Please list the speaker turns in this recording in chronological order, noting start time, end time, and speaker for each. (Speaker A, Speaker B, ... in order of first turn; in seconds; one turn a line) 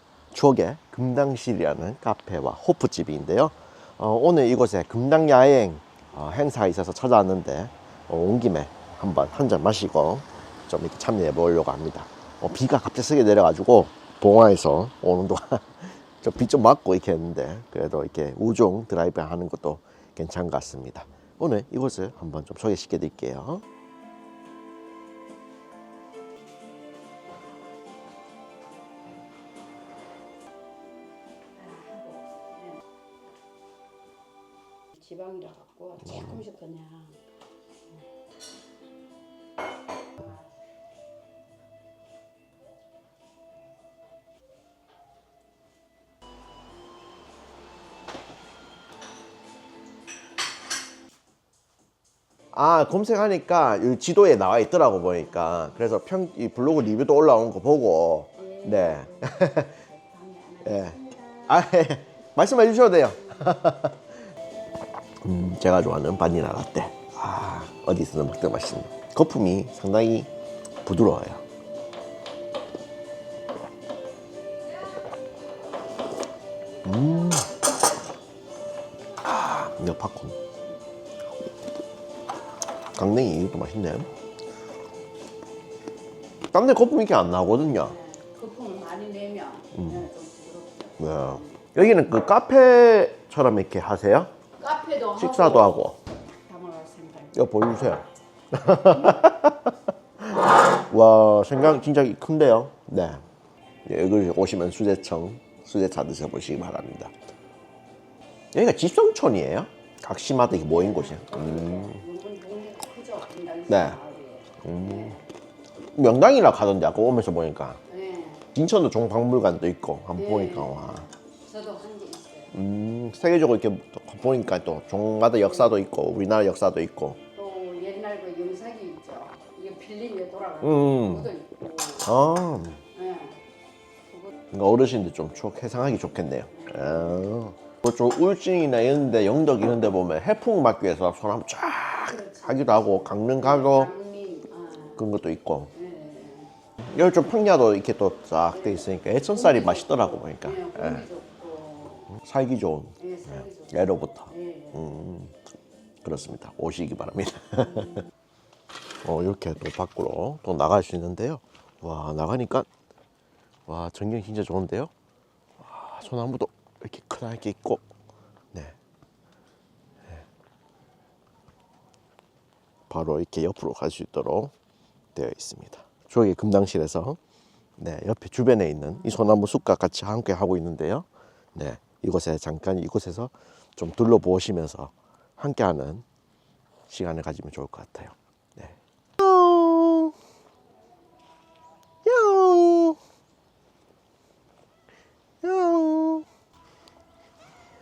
Speaker A: 0.3-23.6
Speaker B: 31.6-32.8
Speaker B: 34.9-37.2
Speaker A: 36.0-36.4
Speaker A: 52.5-59.8
Speaker B: 58.4-61.5
Speaker A: 60.6-64.1
Speaker A: 65.2-70.3
Speaker A: 70.8-71.4
Speaker A: 76.8-77.5
Speaker A: 79.2-80.4
Speaker A: 82.9-84.1
Speaker A: 86.5-88.0
Speaker B: 87.8-91.7
Speaker A: 89.8-90.0
Speaker A: 91.0-94.3
Speaker B: 94.6-97.4
Speaker A: 95.2-96.0
Speaker A: 97.3-103.2
Speaker A: 103.8-107.1
Speaker A: 108.5-112.0
Speaker B: 110.7-115.3
Speaker A: 113.7-114.0
Speaker A: 114.6-115.2
Speaker A: 115.9-117.8
Speaker B: 117.9-118.5
Speaker A: 118.5-121.1
Speaker B: 120.2-122.5
Speaker A: 122.5-127.2
Speaker B: 125.5-125.8
Speaker B: 127.3-132.1
Speaker A: 130.6-131.3
Speaker A: 132.0-132.8
Speaker B: 132.9-133.4
Speaker B: 134.1-134.3
Speaker A: 134.5-143.9
Speaker B: 136.6-136.9
Speaker B: 142.1-145.0
Speaker A: 144.9-145.7
Speaker B: 145.7-146.5
Speaker A: 146.8-151.1
Speaker B: 148.5-152.1
Speaker A: 152.1-155.4
Speaker B: 153.0-154.8
Speaker A: 156.0-158.0
Speaker A: 159.0-162.7
Speaker A: 163.7-164.9
Speaker A: 165.6-167.8
Speaker A: 172.9-174.5
Speaker A: 175.1-177.2
Speaker A: 177.8-186.0
Speaker A: 186.9-190.1
Speaker A: 192.0-193.0
Speaker A: 195.4-196.2